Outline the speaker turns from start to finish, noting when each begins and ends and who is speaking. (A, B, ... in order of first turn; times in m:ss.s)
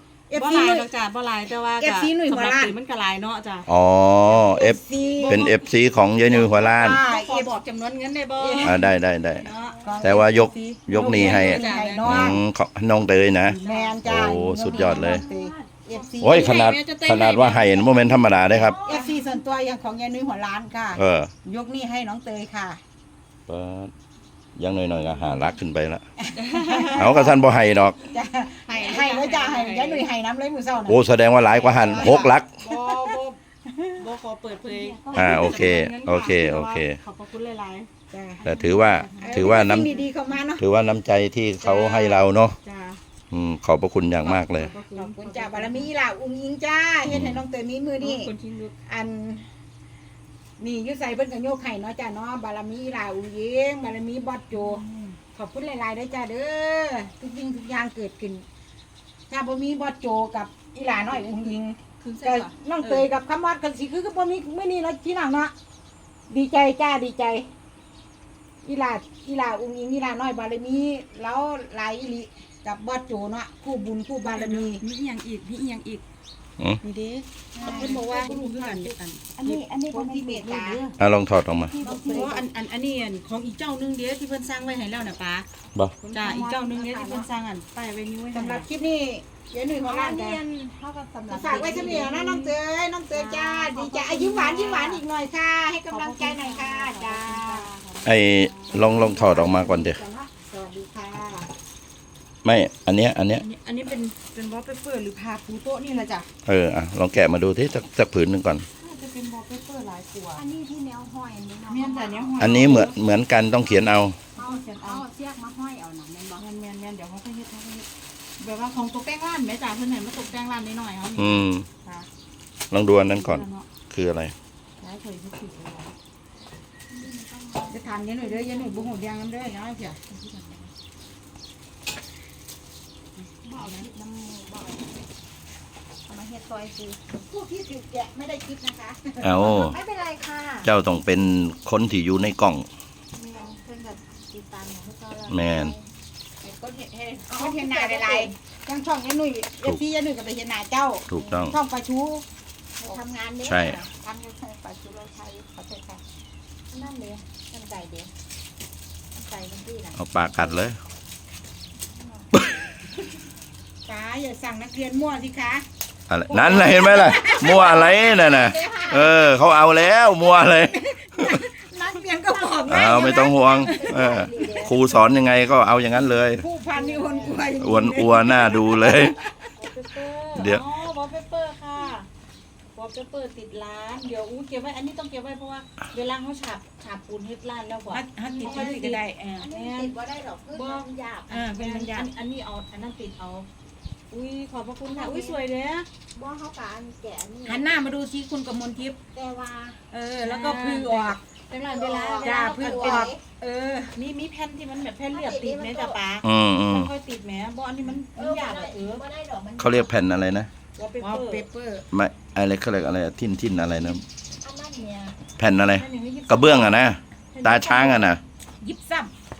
0:00.3-0:00.9 A
0:00.3-0:03.7 B
0:01.8-0:02.7 A
0:03.7-0:07.0 C
0:04.3-0:05.5 A
0:05.2-0:05.6 B
0:06.3-0:08.8 B
0:06.3-0:07.5 A
0:08.4-0:08.8 A
0:08.6-0:09.4 C
0:09.4-0:12.3 B
0:09.8-0:12.4 A
0:10.0-0:15.2 C
0:13.5-0:14.0 B
0:13.6-0:16.6 A
0:14.6-0:15.5 D
0:14.9-0:15.3 B
0:15.9-0:19.2 B
0:16.2-0:18.8 C
0:18.5-0:19.1 D
0:18.7-0:22.8 A
0:21.0-0:21.3 C
0:23.5-0:23.9 C
0:24.6-0:26.0 C
0:25.0-0:25.3 B
0:26.2-0:27.4 A
0:26.4-0:27.1 B
0:26.9-0:28.0 C
0:28.1-0:31.0 A
0:28.7-0:30.1 B
0:30.8-0:32.5 C
0:31.7-0:32.1 B
0:31.7-0:34.0 A
0:32.6-0:33.2 B
0:34.0-0:37.9 B
0:34.7-0:35.8 A
0:35.1-0:37.0 C
0:38.1-0:38.4 A
0:38.4-0:40.1 B
0:38.4-0:39.9 C
0:39.1-0:40.6 A
0:40.6-0:42.6 C
0:41.6-0:42.3 A
0:42.6-0:43.0 B
0:43.3-0:44.7 C
0:44.2-0:45.9 B
0:44.7-0:48.3 A
0:47.1-0:47.4 C
0:48.0-0:48.7 B
0:48.8-0:49.5 A
0:50.6-0:54.8 A
0:54.5-0:55.2 B
0:55.3-0:58.4 A
0:59.3-1:05.5 A
1:00.9-1:01.3 B
1:02.0-1:03.1 B
1:06.3-1:07.5 A
1:08.6-1:14.8 A
1:14.2-1:16.0 B
1:16.8-1:20.9 B
1:17.5-1:20.8 A
1:17.6-1:18.0 D
1:21.0-1:21.8 C
1:21.8-1:22.4 A
1:21.8-1:25.4 B
1:21.8-1:22.4 D
1:26.0-1:27.3 A
1:26.0-1:28.7 B
1:28.3-1:30.4 A
1:29.8-1:32.6 B
1:31.3-1:37.7 A
1:33.1-1:35.0 B
1:35.9-1:38.9 B
1:38.0-1:40.0 C
1:38.7-1:41.5 A
1:42.4-1:43.4 C
1:43.4-1:46.3 B
1:46.4-1:48.6 C
1:48.8-1:50.4 B
1:50.4-1:52.5 D
1:51.7-1:52.9 B
1:52.4-1:54.2 C
1:54.4-1:55.0 B
1:54.4-1:56.4 D
1:54.4-1:55.1 A
1:56.4-1:57.8 B
1:58.4-2:02.1 B
2:01.2-2:01.6 C
2:02.7-2:04.3 C
2:03.0-2:03.7 B
2:04.8-2:05.9 B
2:07.0-2:07.8 D
2:07.7-2:10.0 A
2:08.1-2:08.9 B
2:10.0-2:10.7 B
2:13.4-2:13.9 B
2:13.6-2:14.9 D
2:16.9-2:19.8 A
2:19.2-2:19.8 C
2:19.5-2:20.7 D
2:20.6-2:22.6 C
2:23.2-2:25.9 D
2:25.3-2:25.7 C
2:26.4-2:32.2 A
2:27.3-2:28.3 D
2:31.1-2:31.6 C
2:32.8-2:33.9 D
2:33.4-2:33.8 C
2:34.0-2:36.0 A
2:36.7-2:38.1 D
2:39.2-2:40.0 D
2:39.9-2:40.8 C
2:42.0-2:42.3 D
2:43.8-2:45.6 A
2:46.1-2:51.4 C
2:46.3-2:48.0 A
2:47.5-2:49.0 D
2:48.5-2:49.1 A
2:50.5-2:53.5 A
2:52.7-2:56.4 C
2:53.3-2:54.8 D
2:56.4-2:59.5 A
2:56.7-2:57.4 B
2:57.6-2:59.2 C
2:59.6-3:02.1 B
3:00.3-3:00.6 C
3:02.7-3:09.9 B
3:07.9-3:09.4 A
3:08.4-3:12.0 D
3:10.5-3:13.5 B
3:11.5-3:12.1 A
3:14.1-3:15.9 B
3:14.8-3:15.4 D
3:16.1-3:17.8 D
3:17.4-3:19.0 A
3:19.1-3:19.8 D
3:19.9-3:23.1 B
3:20.2-3:21.2 A
3:21.5-3:23.2 D
3:22.2-3:23.9 A
3:23.9-3:29.0 B
3:25.1-3:26.0 D
3:26.2-3:26.9 C
3:28.1-3:29.9 D
3:29.6-3:30.5 C
3:30.8-3:31.8 A
3:30.9-3:31.4 B
3:31.9-3:34.0 C
3:34.4-3:35.2 D
3:35.4-3:38.2 C
3:35.8-3:36.7 B
3:37.3-3:38.1 B
3:38.6-3:39.1 A